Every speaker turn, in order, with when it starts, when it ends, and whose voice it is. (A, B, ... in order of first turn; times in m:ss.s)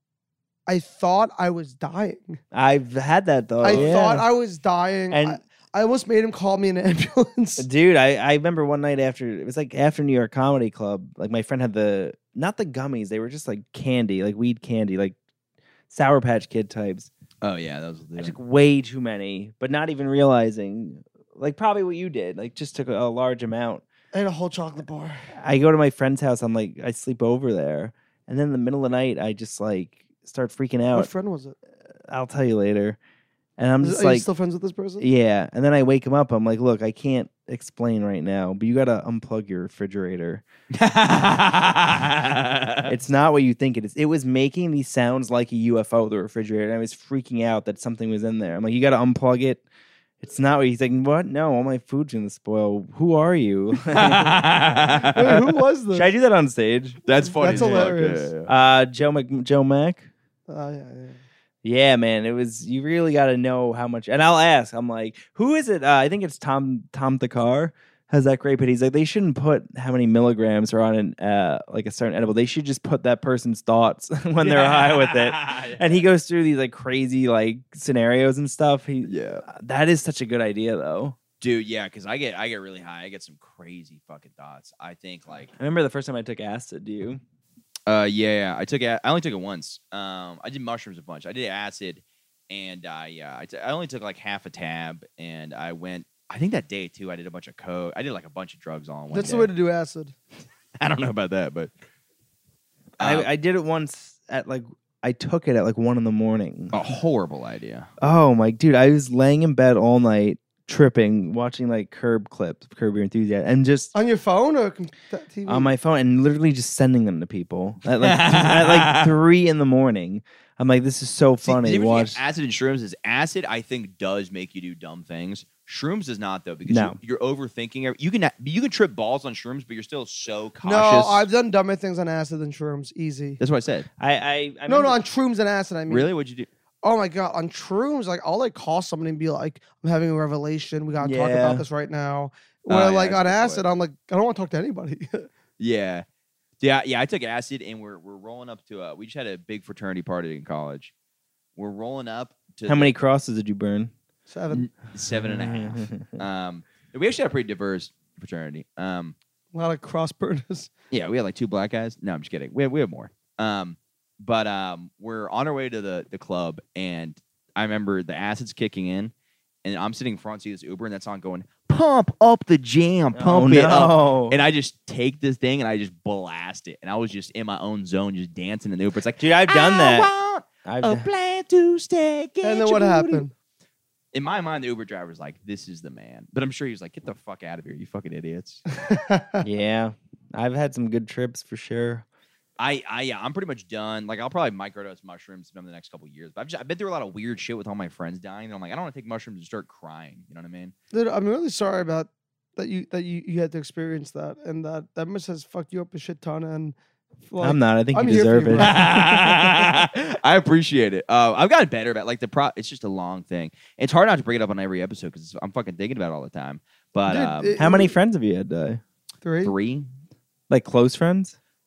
0:00.7-0:02.4 A
0:02.5-0:04.3 B
0:03.6-0:07.7 A
0:03.7-0:03.9 C
0:05.1-0:05.4 B
0:07.6-0:15.2 B
0:15.9-0:17.1 B
0:17.4-0:18.4 C
0:18.2-0:23.8 B
0:24.1-0:25.2 A
0:25.3-0:31.1 B
0:30.9-0:31.6 A
0:32.1-0:33.0 B
0:33.6-0:34.3 B
0:33.8-0:35.1 A
0:35.0-0:40.4 B
0:40.7-0:42.9 C
0:42.9-0:49.6 B
0:50.2-0:54.4 B
0:53.9-0:55.5 C
0:55.2-0:56.1 A
0:55.9-0:57.9 B
0:57.1-0:58.5 C
0:57.3-0:58.3 A
0:58.5-1:00.1 B
1:00.5-1:01.2 A
1:01.6-1:21.2 B
1:14.4-1:16.0 C
1:19.1-1:19.4 C
1:21.4-1:25.5 C
1:25.6-1:27.2 B
1:27.9-1:39.5 C
1:39.1-1:40.2 A
1:40.8-1:41.7 C
1:43.0-1:43.3 C
1:43.0-1:46.8 B
1:46.7-1:47.9 C
1:48.0-1:53.9 B
1:53.9-1:55.7 A
1:55.5-2:02.2 B
1:58.0-1:59.1 C
2:01.4-2:11.3 C
2:06.7-2:07.0 B
2:10.6-2:13.4 A
2:13.4-2:13.9 C
2:14.0-2:15.0 B
2:14.7-2:16.1 A
2:15.9-2:16.5 C
2:16.8-2:25.3 A
2:21.0-2:21.6 B
2:22.7-2:23.7 C
2:25.6-2:26.0 C
2:26.6-2:30.9 C
2:31.6-2:32.9 C
2:32.7-2:33.9 B
2:34.3-2:34.7 A
2:34.5-2:39.2 C
2:35.2-2:36.2 B
2:39.5-2:40.7 A
2:40.9-2:49.1 C
2:49.6-3:03.3 C
2:53.1-2:54.4 B
2:59.2-3:00.1 B
3:00.6-3:01.1 B
3:02.4-3:03.3 A
3:04.1-3:08.6 C
3:08.8-3:09.4 A
3:09.4-3:12.0 B
3:12.6-3:20.7 C
3:20.9-3:26.8 A
3:27.3-3:28.8 A
3:27.4-3:29.3 B
3:28.6-3:37.6 C
3:37.1-3:38.0 A
3:37.6-3:38.8 B
3:39.2-3:39.5 A
3:39.4-3:39.9 C
3:40.5-3:41.4 B